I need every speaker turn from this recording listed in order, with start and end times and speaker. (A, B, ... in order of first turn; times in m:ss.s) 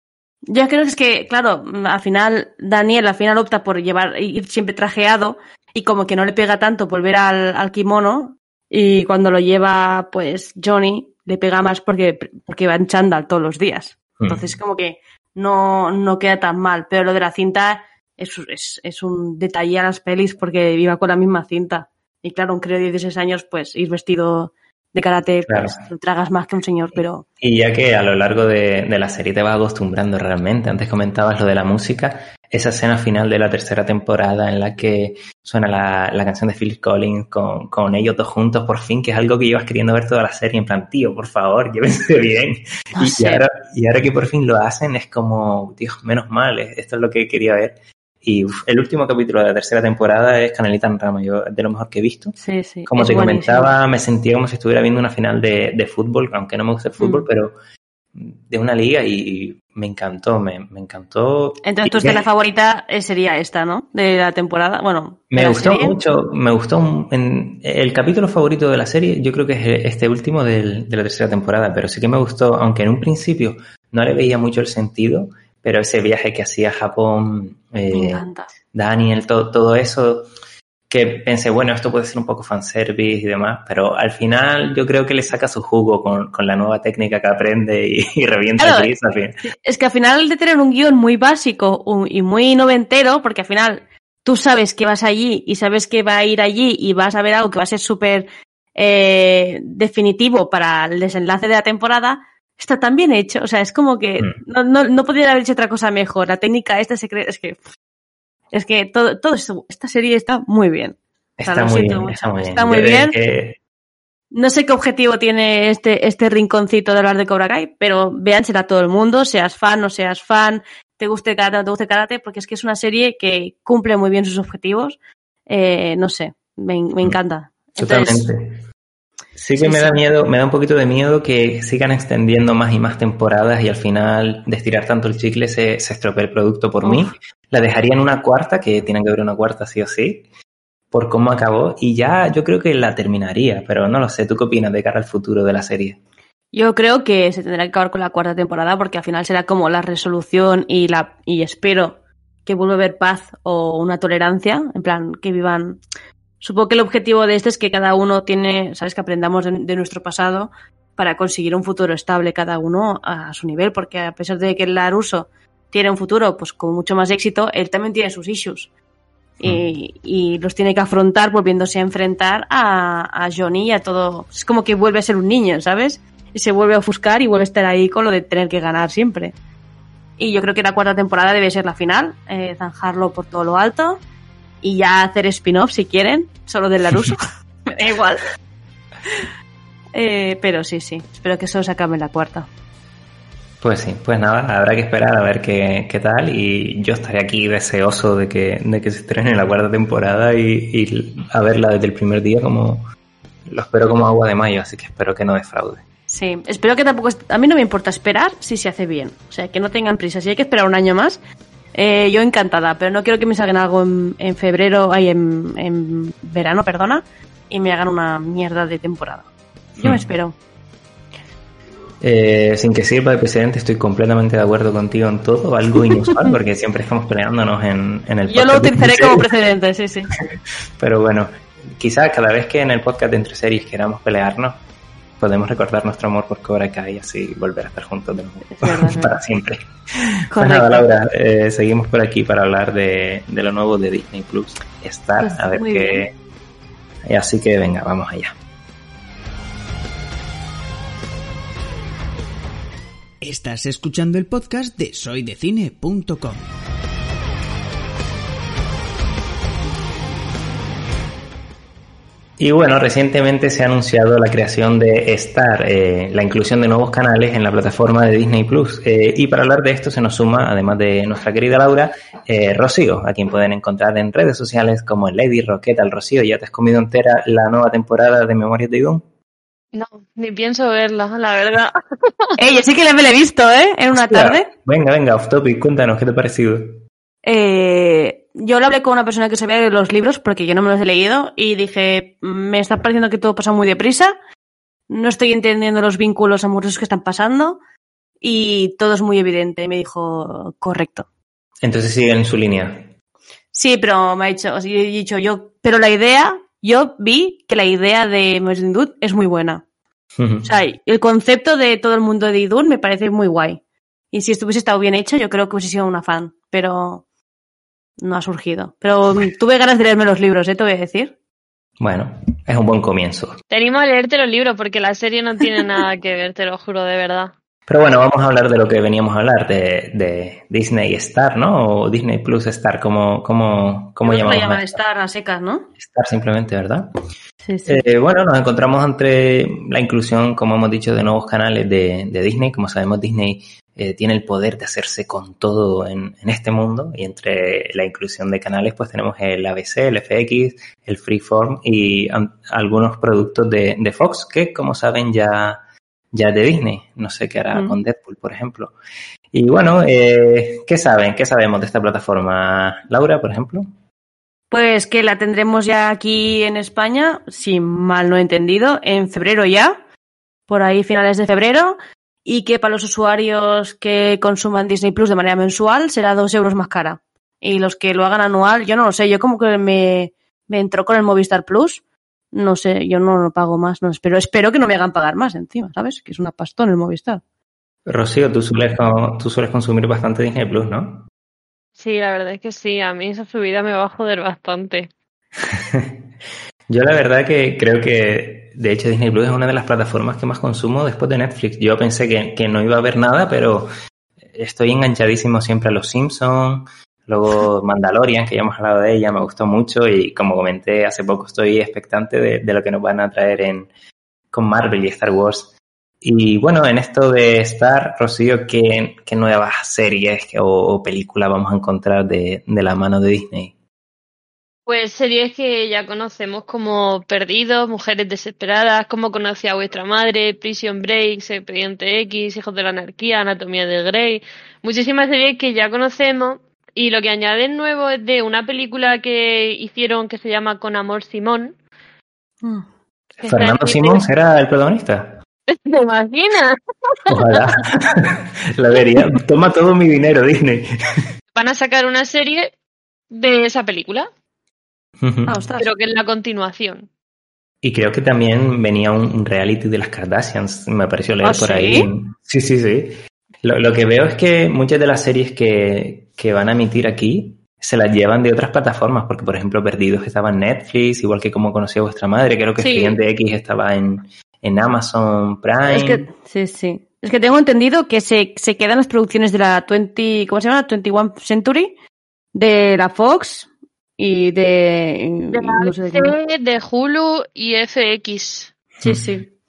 0:00.5-0:27.2 A
0:14.2-0:14.4 B
0:25.5-0:25.8 B
0:27.4-0:52.4 B
0:42.9-0:43.4 A
0:52.4-0:53.7 A
0:52.9-0:57.5 B
0:57.0-0:57.2 A
0:58.1-1:02.2 B
1:01.6-1:06.0 A
1:05.3-1:20.3 B
1:17.9-1:18.5 A
1:20.9-1:29.4 B
1:28.6-1:28.9 A
1:29.4-1:47.6 A
1:48.5-1:53.1 A
1:51.4-1:53.6 B
1:54.3-2:08.2 A
2:07.8-2:08.6 B
2:09.4-2:20.3 B
2:09.6-2:10.0 A
2:16.8-2:17.1 A
2:20.9-2:26.0 B
2:26.5-2:35.8 A
2:36.4-2:48.7 A
2:49.4-2:59.3 A
3:00.2-3:04.0 A
3:04.6-3:08.2 A
3:09.9-3:12.5 A
3:13.6-3:22.8 B
3:23.5-3:25.8 B
3:26.1-3:31.2 A
3:31.7-3:40.4 A
3:42.0-3:49.2 B
3:48.3-3:50.1 A
3:50.8-3:54.6 B
3:55.2-4:06.1 B
3:58.5-3:59.2 A
4:00.3-4:00.9 A
4:05.2-4:06.0 A
4:07.0-4:08.4 B
4:13.2-4:16.4 C
4:22.4-4:39.0 B
4:39.7-4:42.3 D
4:42.4-4:44.5 A
4:43.9-4:46.8 B
4:47.2-4:54.1 A
4:54.9-4:57.6 A
4:58.2-5:01.0 A
5:01.6-5:02.9 B
5:03.5-5:09.6 A
5:10.2-5:10.5 B
5:10.4-5:13.6 A
5:14.1-5:17.0 A
5:18.0-5:21.1 A
5:21.8-5:23.4 B
5:23.5-5:27.3 D
5:27.7-5:34.8 B
5:34.0-5:35.7 A
5:35.8-5:36.9 B
5:37.4-5:37.8 A
5:37.6-5:55.6 B
5:56.1-5:58.7 B
5:59.3-6:03.7 B
6:04.5-6:09.8 A
6:10.5-6:21.8 A
6:22.3-6:27.2 A
6:27.8-6:31.1 B
6:31.8-6:34.9 D
6:35.4-6:36.0 B
6:36.7-6:43.7 B
6:44.3-6:53.7 B
6:54.3-7:03.5 B
7:04.7-7:21.5 D
7:23.2-7:24.0 D
7:23.2-7:25.2 B
7:25.5-7:27.4 D
7:27.1-7:30.7 B
7:31.3-7:32.5 D
7:33.1-7:34.1 D
7:35.0-7:35.4 B
7:35.2-7:35.7 A
7:35.6-7:36.9 D
7:37.6-7:56.0 B
7:41.2-7:41.9 A
7:52.6-7:53.0 A
7:55.6-8:01.7 A
8:02.3-8:06.1 A
8:05.3-8:08.5 D
8:08.8-8:09.3 A